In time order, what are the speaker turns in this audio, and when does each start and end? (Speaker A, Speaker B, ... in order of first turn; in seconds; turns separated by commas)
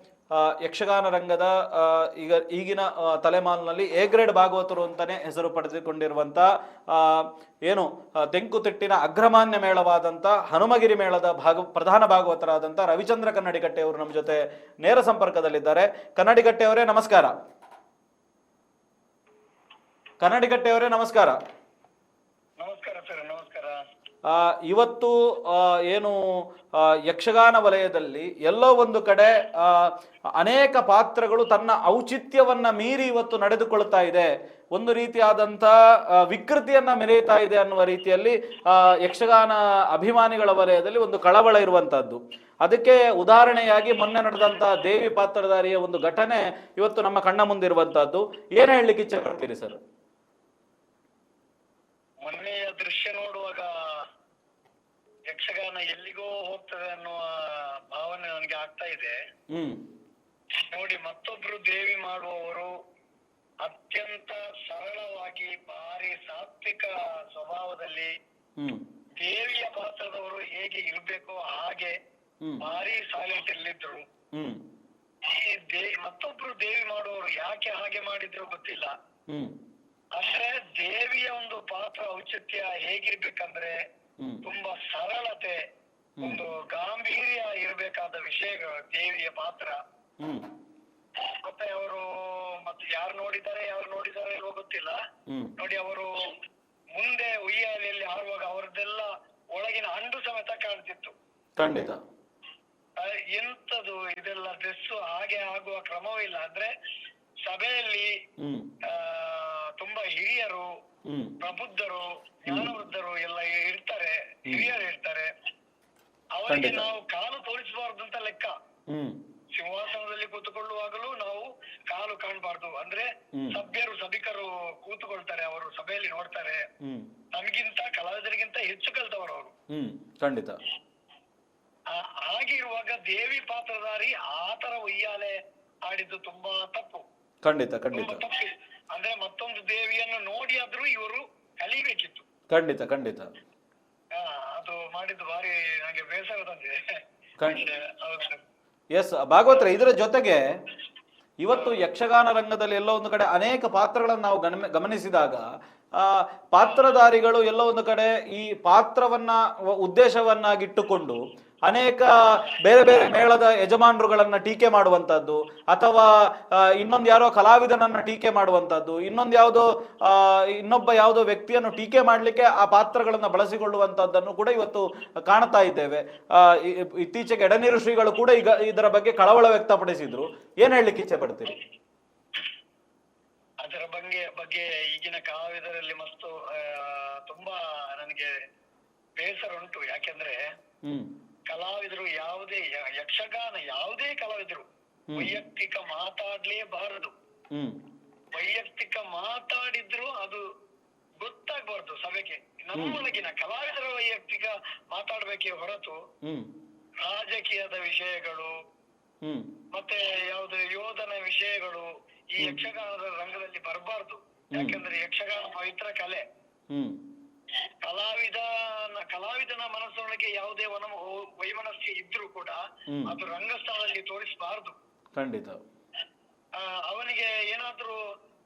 Speaker A: 0.3-17.3, Speaker A: 20.2-21.4, Speaker B: 22.6-23.8, Speaker A: 24.3-26.2, Speaker A: 26.8-49.8, Speaker B: 52.2-53.7, Speaker B: 55.3-59.1, Speaker A: 59.5-59.8, Speaker B: 60.7-62.7, Speaker B: 63.6-68.1, Speaker B: 69.2-72.0, Speaker B: 72.6-74.0, Speaker A: 74.3-74.6, Speaker B: 75.3-78.9, Speaker B: 80.2-83.8, Speaker B: 84.4-85.6, Speaker B: 86.2-89.8, Speaker A: 90.2-90.5, Speaker B: 91.2-95.0, Speaker A: 95.3-95.5, Speaker B: 95.6-96.3, Speaker B: 96.9-101.2, Speaker A: 101.6-102.0, Speaker B: 103.0-106.7, Speaker B: 107.5-108.1, Speaker A: 108.4-108.7, Speaker B: 108.9-110.7, Speaker A: 111.1-111.3, Speaker B: 111.4-115.3, Speaker B: 116.4-118.5, Speaker A: 116.5-116.9, Speaker A: 118.9-119.2, Speaker B: 119.5-126.7, Speaker A: 126.8-127.1, Speaker B: 127.3-129.5, Speaker A: 129.7-130.6, Speaker B: 131.9-135.3, Speaker B: 135.9-137.1, Speaker A: 137.4-138.2, Speaker B: 137.9-142.3, Speaker A: 142.5-143.3, Speaker B: 144.2-146.8, Speaker B: 147.5-148.4, Speaker A: 148.9-150.4, Speaker A: 151.4-155.4, Speaker B: 151.5-151.8, Speaker A: 156.0-181.6, Speaker B: 183.6-188.3, Speaker B: 189.2-190.4, Speaker B: 191.5-197.1, Speaker B: 198.3-200.4, Speaker B: 201.2-206.0, Speaker A: 206.2-206.5, Speaker B: 207.0-208.5, Speaker A: 209.2-209.5, Speaker B: 209.7-216.2, Speaker A: 216.7-217.0, Speaker B: 217.8-224.8, Speaker A: 225.2-225.6, Speaker B: 226.6-228.0